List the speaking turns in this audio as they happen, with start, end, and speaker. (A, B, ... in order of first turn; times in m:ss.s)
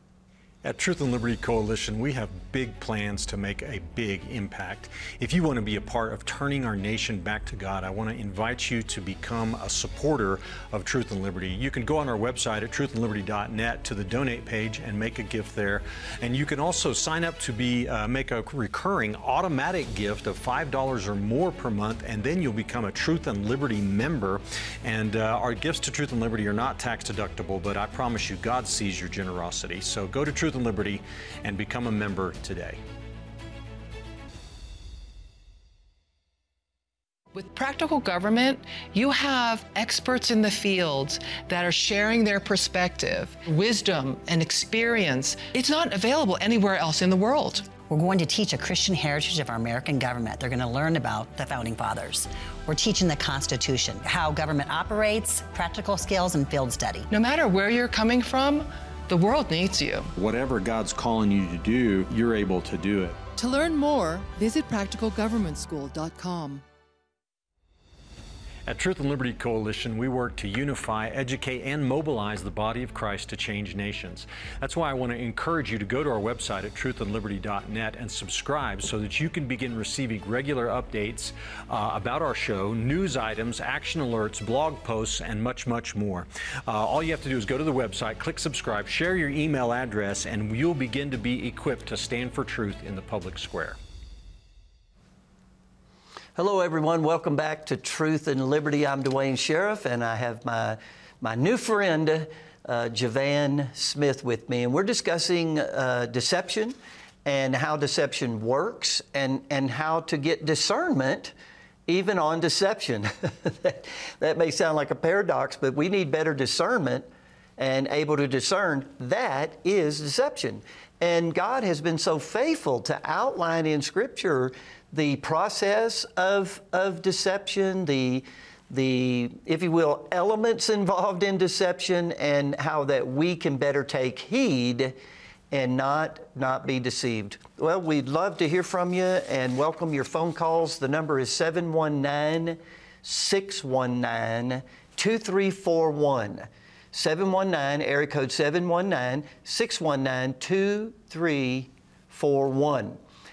0:00.6-0:32.8 A
0:37.3-0:47.8 B
0:47.8-0:57.1 C
0:57.1-1:00.1 B
1:00.2-1:03.2 A
1:03.4-1:06.6 D
1:08.6-1:33.8 A
1:36.4-1:51.3 E
1:51.9-2:15.0 E
2:15.5-2:33.0 E